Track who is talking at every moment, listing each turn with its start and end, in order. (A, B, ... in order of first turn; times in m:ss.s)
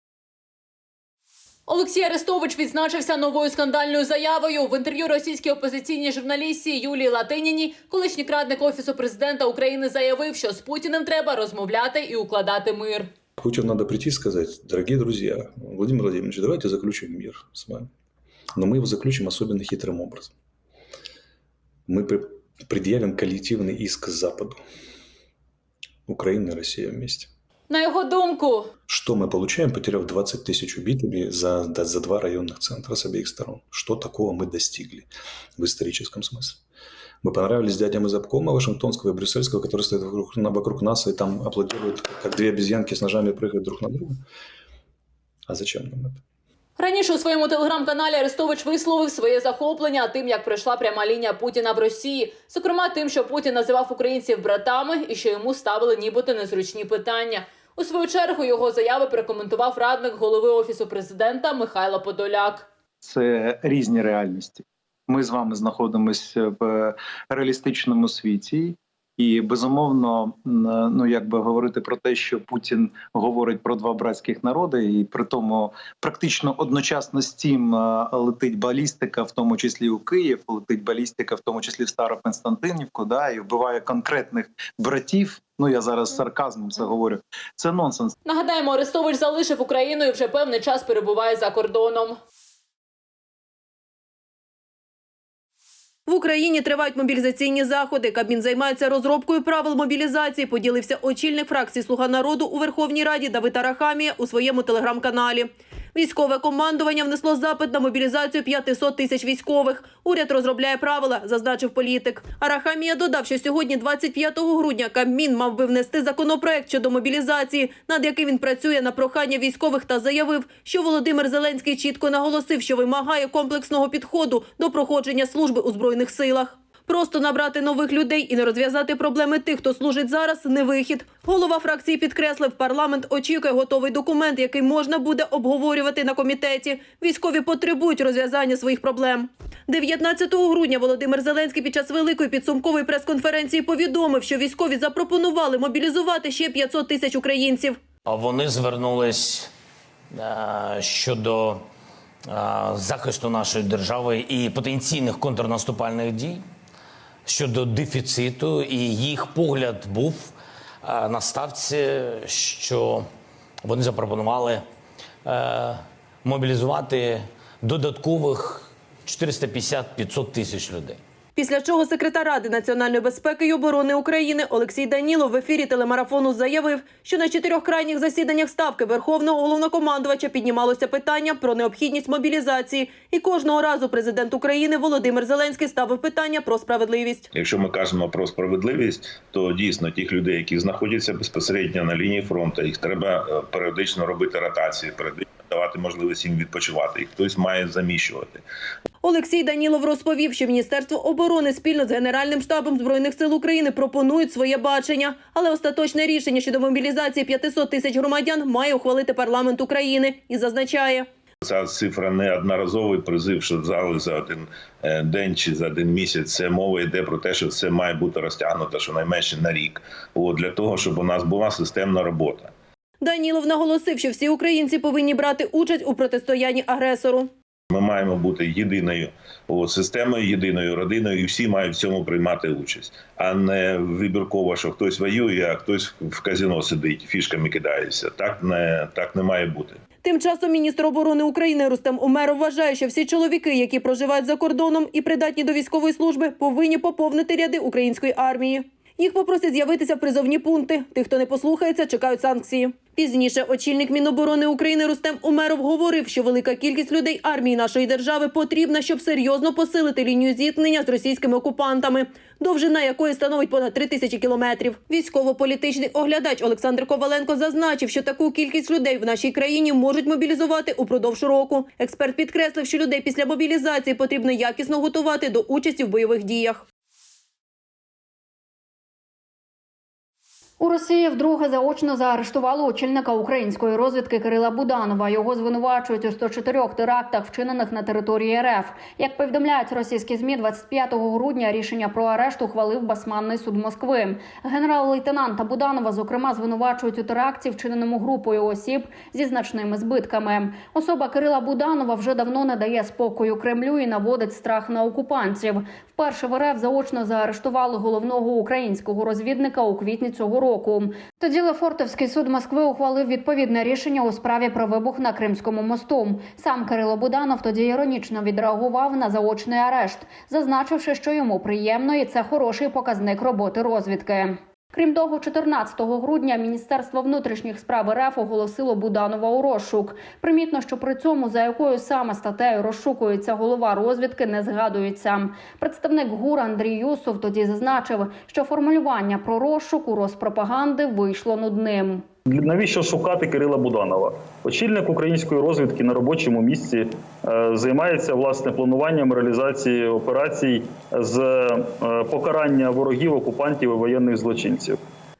0:01.7-0:13.1 A
0:13.4-0:17.9 B
0:18.6-0:20.3 B
0:21.9-0:24.6 B
0:26.1-0:27.3 B
0:27.7-0:28.7 A
0:28.9-0:36.6 B
0:37.2-0:44.2 B
0:45.5-0:46.2 B
0:46.8-1:02.7 A
1:03.0-1:28.1 C
1:28.3-1:32.2 A
1:36.1-2:27.8 D
2:28.0-2:29.5 E
2:30.1-2:31.7 E
2:32.3-2:36.5 E
2:37.2-2:43.1 E
2:43.6-2:44.7 E
2:45.2-2:51.0 E
2:51.4-3:07.3 D
3:07.3-3:18.4 F
3:19.0-3:31.1 D
3:31.4-3:42.5 F
3:43.0-3:47.3 D
3:47.7-3:59.8 F
4:00.0-4:36.7 D
4:40.6-5:42.0 G
5:42.3-5:54.8 H